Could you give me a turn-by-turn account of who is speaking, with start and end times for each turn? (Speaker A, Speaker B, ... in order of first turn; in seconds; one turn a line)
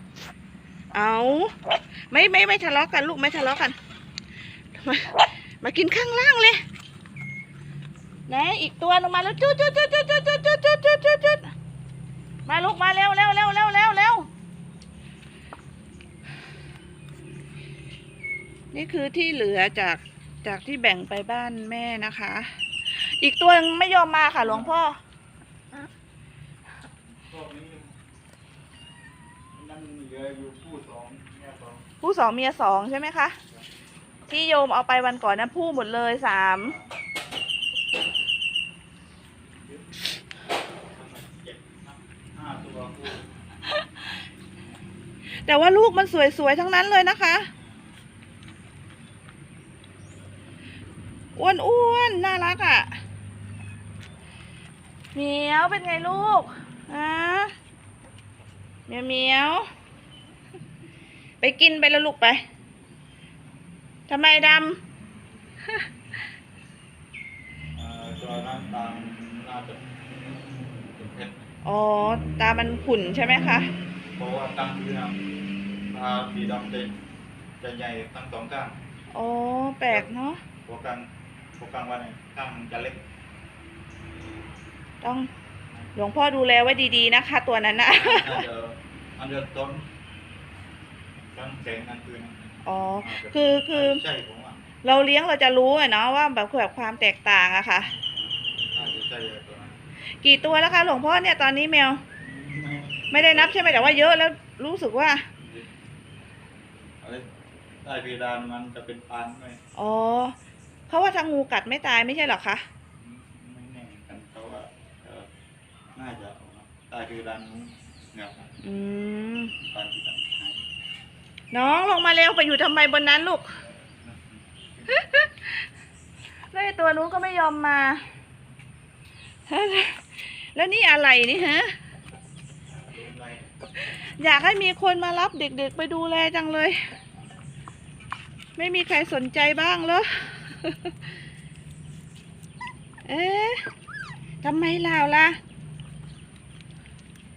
Speaker A: 0.9-1.5
Speaker A: 2.1-3.8
Speaker A: 4.7-6.6
Speaker A: 8.3-11.5
Speaker A: 12.5-14.3
Speaker A: 18.7-25.0
Speaker B: 24.4-24.8
Speaker B: 27.1-27.9
Speaker B: 29.5-31.8
Speaker A: 32.0-33.4
Speaker A: 34.3-36.8
Speaker B: 36.6-36.9
Speaker B: 39.6-39.9
Speaker B: 40.9-43.3
Speaker A: 45.4-47.5
Speaker B: 47.5-48.0
Speaker A: 51.4-52.9
Speaker A: 55.1-57.5
Speaker A: 58.9-59.7
Speaker A: 61.4-62.4
Speaker A: 64.1-64.8
Speaker B: 67.8-69.9
Speaker B: 70.9-71.5
Speaker A: 71.6-73.7
Speaker B: 74.2-75.2
Speaker B: 75.9-77.0
Speaker B: 77.6-78.8
Speaker A: 79.1-80.4
Speaker B: 80.7-83.0
Speaker A: 85.0-85.3
Speaker A: 86.0-88.4
Speaker B: 87.9-89.9
Speaker B: 91.3-94.7
Speaker A: 92.7-94.0
Speaker A: 94.8-97.9
Speaker B: 98.7-99.8
Speaker A: 100.2-102.0
Speaker B: 102.2-104.1
Speaker A: 103.1-105.2
Speaker B: 105.4-105.7
Speaker B: 107.0-107.3
Speaker B: 107.8-109.6
Speaker A: 109.8-110.3
Speaker A: 110.9-112.7
Speaker B: 113.0-115.3
Speaker B: 116.0-118.6
Speaker A: 118.6-119.5
Speaker B: 119.6-120.6
Speaker A: 121.5-123.5
Speaker B: 123.5-125.0
Speaker A: 124.9-125.5
Speaker A: 126.5-128.0
Speaker A: 129.5-131.7
Speaker B: 132.8-133.5
Speaker A: 134.2-136.8
Speaker A: 138.6-140.9
Speaker A: 143.1-143.6
Speaker A: 144.4-145.4